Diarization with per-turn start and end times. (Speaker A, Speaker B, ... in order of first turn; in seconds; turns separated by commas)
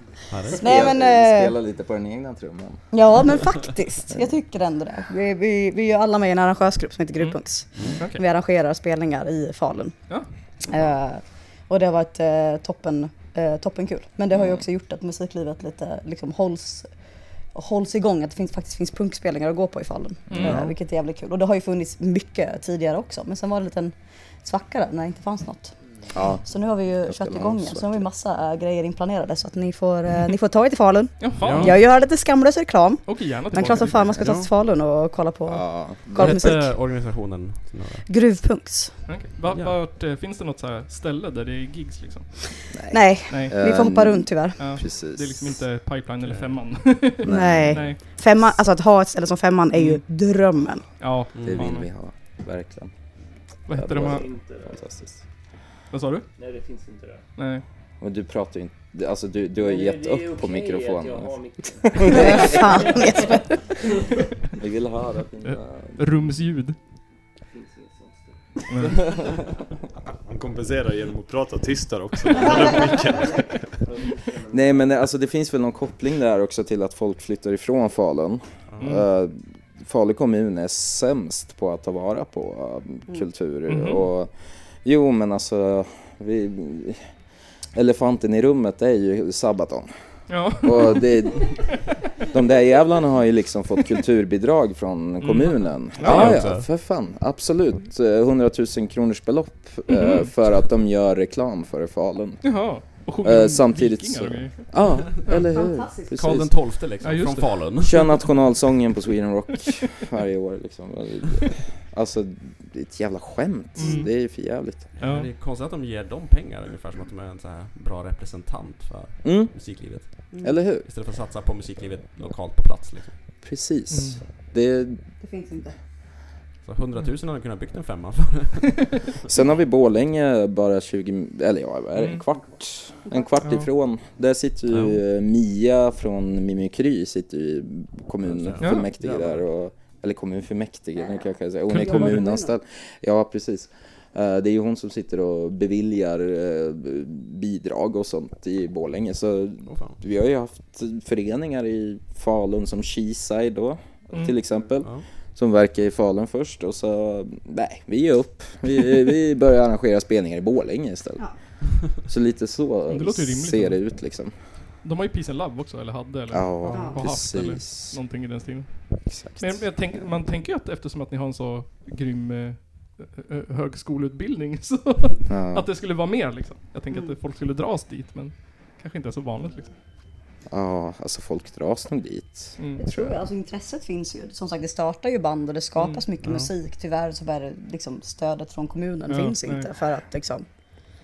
Speaker A: 0.3-0.7, Speaker B: 0.5-1.6, Speaker C: 0.5-2.8, Speaker B: 2.9-9.9, Speaker B: 10.7-16.9, Speaker C: 14.3-14.6, Speaker B: 17.6-25.7, Speaker C: 20.3-20.6, Speaker D: 20.3-20.6, Speaker A: 20.4-20.7, Speaker C: 26.1-26.5, Speaker B: 26.4-36.7, Speaker C: 27.0-28.0, Speaker D: 31.2-31.8, Speaker A: 31.4-31.8, Speaker D: 33.1-34.1, Speaker A: 33.6-34.5, Speaker C: 35.5-36.4, Speaker A: 36.1-38.1, Speaker B: 38.1-38.9, Speaker D: 39.1-42.6, Speaker A: 39.5-39.8, Speaker C: 42.7-45.6, Speaker B: 42.9-44.6, Speaker D: 43.3-43.5, Speaker D: 44.6-48.0, Speaker A: 46.3-46.6, Speaker C: 47.2-48.0, Speaker B: 47.3-50.8, Speaker D: 49.7-50.0, Speaker D: 51.0-51.9, Speaker A: 51.4-51.7, Speaker C: 51.4-52.9, Speaker D: 53.7-54.3, Speaker C: 53.7-55.2, Speaker E: 53.9-54.9, Speaker D: 55.9-56.3, Speaker E: 56.4-57.2, Speaker D: 57.4-57.6, Speaker C: 58.0-62.8, Speaker E: 59.6-64.1, Speaker B: 62.1-63.7, Speaker C: 64.6-66.0, Speaker D: 65.4-66.8, Speaker E: 67.5-69.4, Speaker D: 68.7-69.1, Speaker F: 70.3-73.8, Speaker E: 72.4-75.0, Speaker C: 74.5-87.1, Speaker A: 78.7-79.0, Speaker D: 83.7-84.1, Speaker C: 87.7-89.9, Speaker D: 90.3-91.7, Speaker C: 90.6-91.8, Speaker C: 92.3-102.5, Speaker D: 95.2-96.4, Speaker A: 96.0-96.7, Speaker D: 99.9-100.2, Speaker D: 102.4-104.5, Speaker C: 103.2-106.5, Speaker B: 105.5-106.1, Speaker A: 106.1-108.1, Speaker D: 107.0-107.7, Speaker C: 107.8-114.9, Speaker D: 113.8-114.1, Speaker D: 115.0-115.3, Speaker A: 115.0-120.3, Speaker C: 119.2-119.5, Speaker C: 120.4-120.9, Speaker A: 120.8-123.1, Speaker C: 123.4-125.0, Speaker D: 123.9-124.2, Speaker B: 125.2-125.7, Speaker A: 126.7-128.9, Speaker C: 129.3-161.3, Speaker D: 132.0-132.2, Speaker D: 133.4-133.7, Speaker A: 134.7-135.0, Speaker A: 138.2-139.4, Speaker D: 138.6-138.9, Speaker D: 141.7-142.2, Speaker B: 141.8-142.5, Speaker A: 149.7-150.0, Speaker C: 161.8-164.3, Speaker D: 162.9-163.8, Speaker D: 164.8-179.7, Speaker C: 166.3-168.0, Speaker B: 166.7-167.0, Speaker C: 169.1-169.7, Speaker C: 175.3-175.7, Speaker C: 180.5-183.2, Speaker D: 182.6-182.9, Speaker B: 182.8-190.5, Speaker D: 185.8-186.0, Speaker A: 186.2-186.5, Speaker D: 189.1-189.7